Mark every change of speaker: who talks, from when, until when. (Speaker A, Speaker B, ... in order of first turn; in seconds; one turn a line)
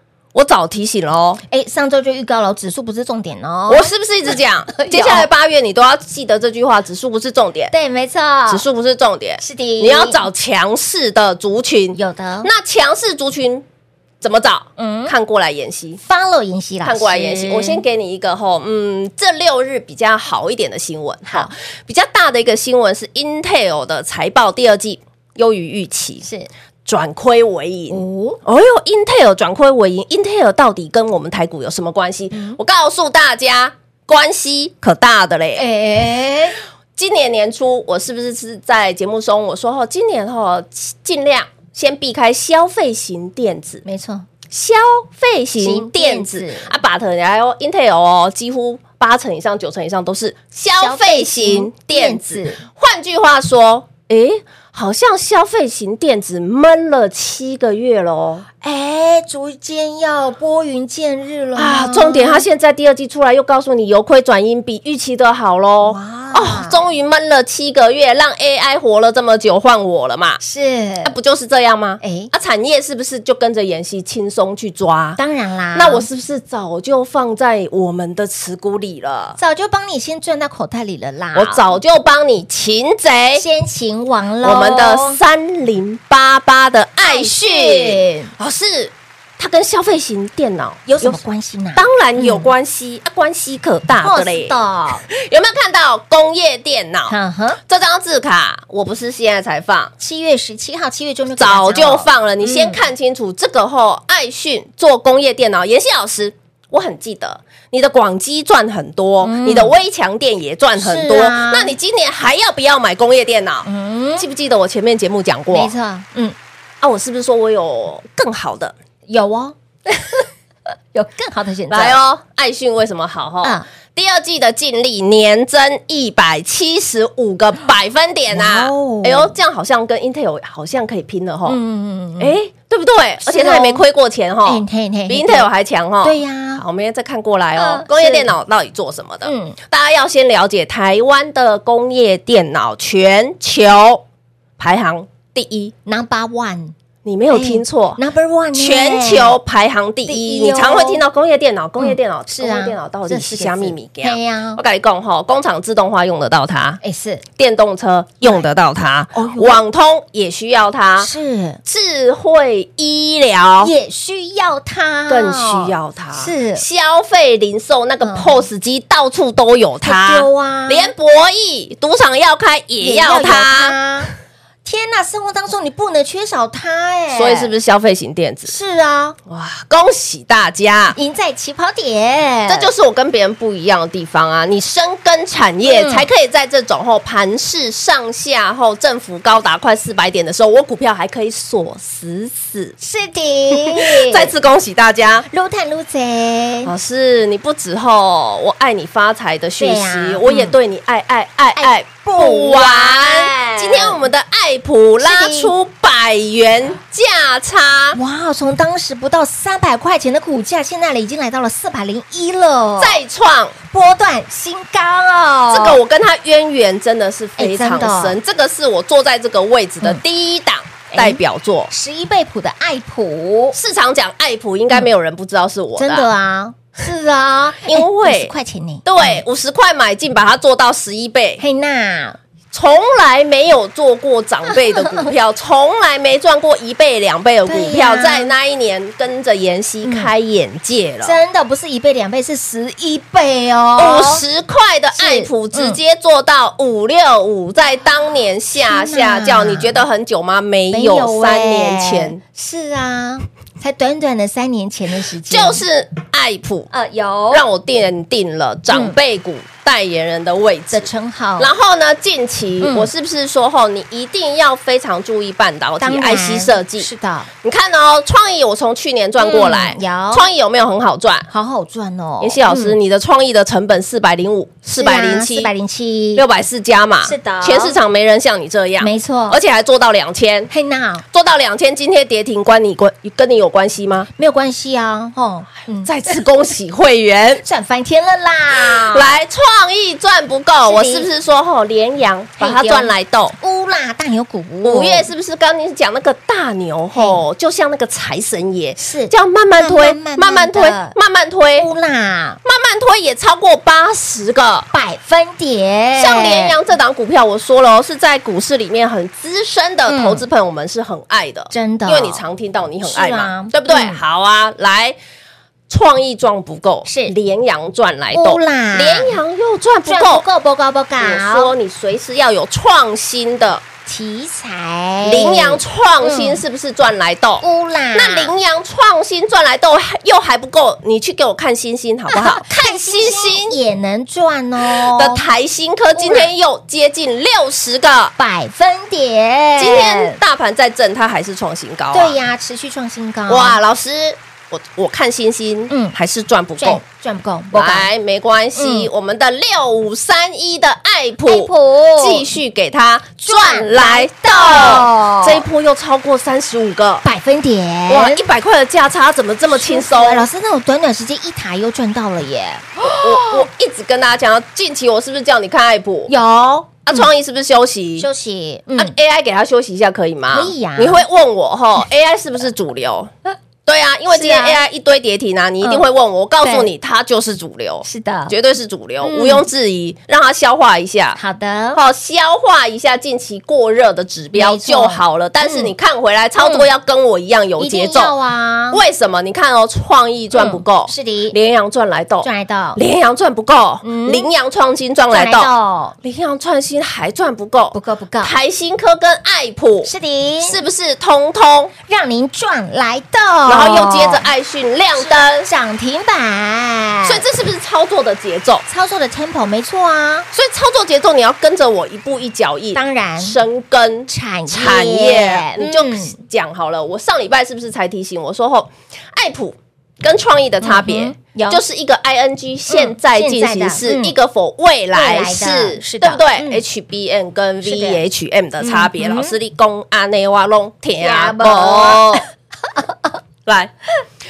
Speaker A: 0.3-1.4
Speaker B: 1.5-3.9
Speaker A: 3.7-7.7
Speaker B: 4.7-5.3
Speaker B: 7.7-8.6
Speaker A: 8.5-13.6
Speaker B: 9.4-10.2
Speaker B: 11.9-12.5
Speaker A: 14.2-16.0
Speaker B: 14.8-15.1
Speaker B: 16.0-17.8
Speaker A: 16.8-26.2
Speaker B: 21.3-21.5
Speaker B: 26.2-26.5
Speaker A: 26.9-35.6
Speaker B: 27.9-28.4
Speaker B: 32.3-32.6
Speaker B: 35.6-36.6
Speaker A: 37.0-43.8
Speaker B: 43.8-44.3
Speaker A: 44.5-58.5
Speaker B: 45.6-46.7
Speaker B: 50.8-52.6
Speaker B: 58.6-62.4
Speaker A: 61.5-70.4
Speaker B: 65.8-66.8
Speaker B: 70.4-71.1
Speaker A: 71.0-75.2
Speaker B: 72.0-72.3
Speaker B: 75.2-76.0
Speaker A: 75.7-79.4
Speaker B: 79.4-81.7
Speaker A: 81.3-83.4
Speaker B: 83.3-85.2
Speaker A: 84.4-91.2
Speaker B: 87.0-88.3
Speaker B: 90.9-92.5
Speaker A: 91.8-94.5
Speaker B: 94.0-95.0
Speaker A: 95.1-97.1
Speaker B: 97.1-97.6
Speaker A: 97.7-99.9
Speaker B: 100.0-102.8
Speaker A: 101.4-115.7
Speaker B: 109.2-109.7
Speaker B: 110.8-111.7
Speaker B: 113.6-114.3
Speaker B: 115.5-116.3
Speaker A: 116.8-118.7
Speaker B: 119.1-120.2
Speaker B: 120.9-122.0
Speaker A: 121.7-131.6
Speaker B: 128.3-129.3
Speaker B: 131.4-132.3
Speaker A: 132.2-144.0
Speaker B: 133.2-133.8
Speaker B: 134.4-135.5
Speaker B: 136.0-136.6
Speaker B: 137.6-138.3
Speaker B: 139.2-139.6
Speaker A: 144.6-145.7
Speaker B: 145.9-146.7
Speaker A: 147.0-148.0
Speaker B: 147.3-149.3
Speaker A: 148.5-156.8
Speaker B: 150.1-151.0
Speaker B: 151.8-154.6
Speaker B: 156.8-157.2
Speaker A: 157.4-161.1
Speaker B: 159.1-159.6
Speaker B: 161.0-161.6
Speaker A: 161.7-163.7
Speaker B: 163.6-166.6
Speaker A: 165.1-173.8
Speaker B: 168.0-168.4
Speaker B: 169.8-170.9
Speaker B: 172.8-174.1
Speaker B: 174.6-177.5
Speaker A: 177.1-178.5
Speaker B: 178.5-179.2
Speaker A: 179.3-180.9
Speaker B: 180.9-182.7
Speaker A: 182.5-192.8
Speaker B: 185.7-186.1
Speaker B: 192.8-194.3
Speaker A: 193.5-195.3
Speaker B: 195.3-196.7
Speaker A: 196.7-208.0
Speaker B: 199.6-200.6
Speaker B: 201.6-204.0
Speaker B: 205.0-205.5
Speaker B: 207.9-213.0
Speaker A: 212.8-213.6
Speaker B: 213.7-215.8
Speaker A: 215.5-221.7
Speaker B: 217.4-218.2
Speaker B: 220.9-221.2
Speaker B: 221.7-223.6
Speaker A: 223.5-226.1
Speaker B: 225.8-229.2
Speaker A: 227.6-228.3
Speaker A: 228.8-231.4
Speaker B: 231.4-232.2
Speaker A: 232.5-241.2
Speaker B: 234.7-235.1
Speaker B: 237.5-238.3
Speaker B: 239.8-240.1
Speaker B: 241.0-244.2
Speaker A: 243.8-252.2
Speaker B: 244.9-245.8
Speaker B: 248.5-249.8
Speaker B: 250.7-255.6
Speaker A: 255.3-256.7
Speaker B: 256.7-257.4
Speaker A: 257.3-266.9
Speaker B: 258.7-258.9
Speaker B: 260.7-261.5
Speaker B: 262.6-262.9
Speaker B: 265.8-267.3
Speaker A: 267.4-271.3
Speaker B: 269.2-270.3
Speaker B: 271.3-272.8
Speaker A: 272.2-275.5
Speaker B: 274.8-276.2
Speaker A: 276.1-280.5
Speaker B: 277.0-277.8
Speaker B: 278.8-279.4
Speaker B: 280.5-281.0
Speaker A: 281.1-284.1
Speaker B: 284.2-286.1
Speaker A: 285.8-287.4
Speaker B: 287.4-289.1
Speaker A: 288.6-293.4
Speaker B: 290.6-291.1
Speaker B: 292.4-295.1
Speaker A: 294.6-301.7
Speaker B: 296.9-297.2
Speaker B: 298.8-300.9
Speaker B: 301.6-302.4
Speaker A: 302.4-304.7
Speaker B: 304.7-306.6
Speaker A: 306.0-314.9
Speaker B: 309.9-310.2
Speaker B: 311.5-312.2
Speaker B: 312.8-314.0
Speaker A: 315.7-320.2
Speaker B: 316.9-317.1
Speaker B: 318.1-319.2
Speaker B: 319.9-321.5
Speaker A: 321.0-323.6
Speaker B: 323.9-326.4
Speaker A: 325.0-327.4
Speaker B: 327.4-328.3
Speaker A: 327.9-333.6
Speaker B: 332.1-335.2
Speaker A: 334.7-338.1
Speaker B: 335.9-336.3
Speaker B: 338.2-340.2
Speaker A: 339.6-342.2
Speaker B: 341.9-343.6
Speaker A: 343.3-346.8
Speaker B: 345.7-345.9
Speaker B: 346.6-347.9
Speaker A: 347.5-357.0
Speaker B: 348.6-348.9
Speaker B: 351.2-352.3
Speaker B: 353.2-355.4
Speaker B: 357.0-358.2
Speaker A: 357.9-360.3
Speaker B: 359.5-363.5
Speaker A: 363.0-366.1
Speaker B: 366.1-367.1
Speaker A: 366.9-368.1
Speaker B: 368.0-368.9
Speaker A: 368.8-373.1
Speaker B: 370.3-371.0
Speaker A: 373.6-381.2
Speaker B: 374.1-374.6
Speaker B: 376.4-376.7
Speaker B: 377.8-378.3
Speaker B: 379.0-379.4
Speaker B: 381.1-381.8
Speaker A: 381.7-388.1
Speaker B: 384.3-385.7
Speaker B: 386.4-386.7
Speaker B: 387.6-388.8
Speaker A: 388.7-395.5
Speaker B: 390.3-391.3
Speaker B: 392.2-392.8
Speaker B: 393.8-394.3
Speaker B: 395.1-395.9
Speaker A: 396.0-399.9
Speaker B: 397.7-398.3
Speaker B: 399.8-400.6
Speaker A: 400.4-401.7
Speaker B: 401.9-404.3
Speaker A: 403.5-405.5
Speaker B: 405.0-407.2
Speaker A: 407.1-408.6
Speaker B: 408.7-410.3
Speaker A: 410.3-432.2
Speaker B: 412.7-413.4
Speaker B: 414.1-416.2
Speaker B: 420.6-421.6
Speaker B: 422.7-424.1
Speaker B: 424.9-426.6
Speaker B: 427.6-428.0
Speaker B: 428.6-429.3
Speaker B: 431.0-432.2
Speaker A: 433.4-433.7